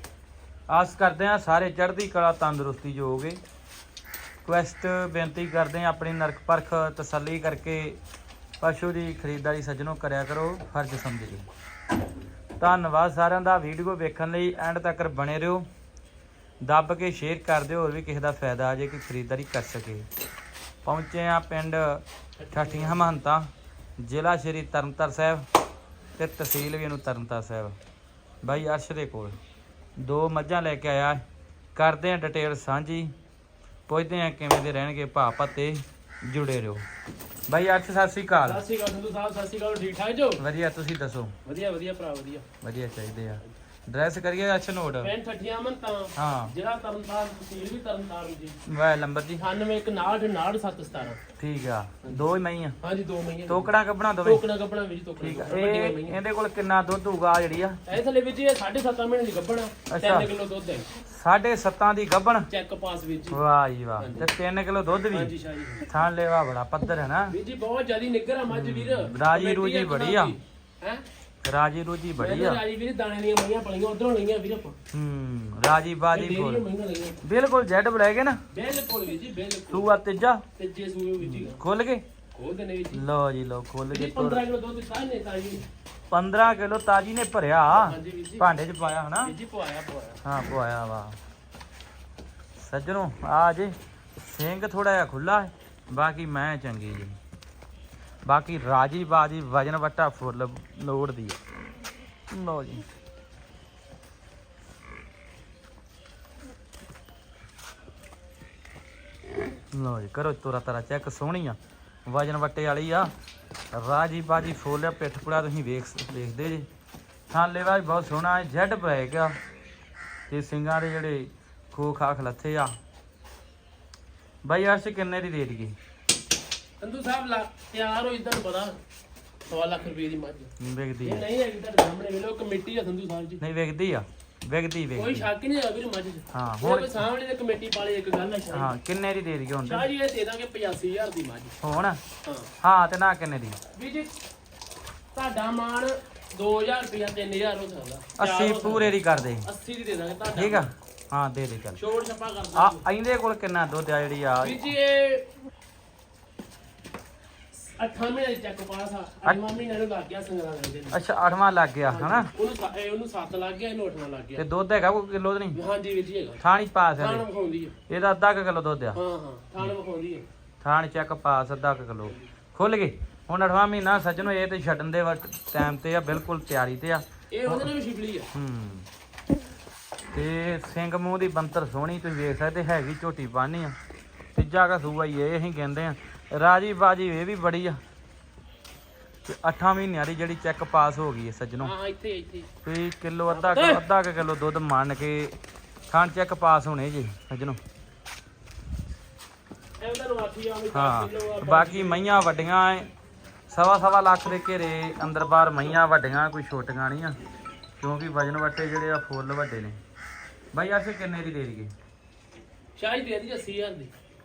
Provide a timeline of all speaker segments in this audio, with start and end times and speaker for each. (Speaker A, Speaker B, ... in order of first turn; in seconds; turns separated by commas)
Speaker A: 0.7-3.4, Speaker A: 4.4-8.0, Speaker A: 8.6-11.4, Speaker A: 12.6-15.7, Speaker A: 16.6-20.1, Speaker A: 20.8-23.5, Speaker B: 22.4-23.1, Speaker A: 24.0-25.4, Speaker A: 26.2-27.7, Speaker A: 28.4-29.4, Speaker A: 30.0-31.2, Speaker A: 31.7-33.1, Speaker A: 33.9-36.8, Speaker A: 37.5-38.6, Speaker B: 38.4-40.4, Speaker A: 40.4-41.3, Speaker B: 41.4-42.5, Speaker A: 42.6-45.1, Speaker B: 45.0-48.6, Speaker A: 46.1-46.5, Speaker A: 48.7-49.4, Speaker B: 49.4-51.2, Speaker A: 51.4-52.8, Speaker B: 52.8-53.7, Speaker A: 53.5-54.4, Speaker B: 54.2-56.2, Speaker A: 55.2-58.0, Speaker B: 57.9-60.9, Speaker A: 59.9-60.3, Speaker A: 61.0-62.5, Speaker B: 62.5-63.4, Speaker A: 63.3-65.3, Speaker B: 64.0-64.3, Speaker B: 65.1-65.9, Speaker A: 65.9-67.3, Speaker B: 67.3-71.0, Speaker A: 68.5-70.3, Speaker A: 71.4-72.6, Speaker B: 72.2-74.8, Speaker A: 74.9-76.6, Speaker B: 76.1-77.2, Speaker A: 77.2-78.4, Speaker B: 78.5-79.9, Speaker A: 79.7-80.4, Speaker B: 80.6-81.6, Speaker A: 81.2-82.0, Speaker B: 82.3-83.0, Speaker A: 82.9-84.4, Speaker B: 83.9-85.7, Speaker A: 86.1-89.3, Speaker B: 87.7-88.5, Speaker B: 89.2-90.2, Speaker A: 90.2-91.2, Speaker A: 92.6-97.2, Speaker A: 98.2-101.4, Speaker A: 102.3-102.8, Speaker A: 109.7-113.1, Speaker A: 113.7-116.7, Speaker A: 117.3-119.3, Speaker A: 120.3-122.7, Speaker A: 124.4-125.7, Speaker B: 126.8-128.8, Speaker B: 129.4-130.5, Speaker A: 130.6-131.2, Speaker B: 131.0-133.4, Speaker A: 133.4-135.3, Speaker B: 134.9-138.7, Speaker A: 136.3-137.0, Speaker A: 138.5-139.9, Speaker B: 139.6-141.6, Speaker A: 141.6-142.0, Speaker B: 142.2-142.5, Speaker A: 142.6-143.6, Speaker B: 143.7-144.1, Speaker B: 145.1-150.7, Speaker A: 148.2-149.5, Speaker A: 150.3-151.8, Speaker B: 151.8-152.8, Speaker A: 152.5-154.6, Speaker B: 154.4-155.3, Speaker B: 157.5-161.0, Speaker A: 160.9-162.3, Speaker B: 161.9-164.4, Speaker A: 164.4-165.6, Speaker B: 165.5-166.4, Speaker A: 166.4-167.2, Speaker B: 167.0-167.8, Speaker A: 167.9-169.0, Speaker B: 168.9-170.2, Speaker A: 170.6-177.7, Speaker B: 177.3-178.3, Speaker A: 178.3-178.9, Speaker A: 180.1-183.7, Speaker A: 184.3-187.8, Speaker A: 189.2-191.7, Speaker B: 191.6-192.5, Speaker A: 192.6-195.3, Speaker B: 193.3-193.8, Speaker A: 195.9-197.6, Speaker B: 199.8-202.2, Speaker A: 200.7-202.9, Speaker A: 203.5-207.2, Speaker A: 207.8-209.8, Speaker A: 210.5-211.7, Speaker B: 212.8-213.9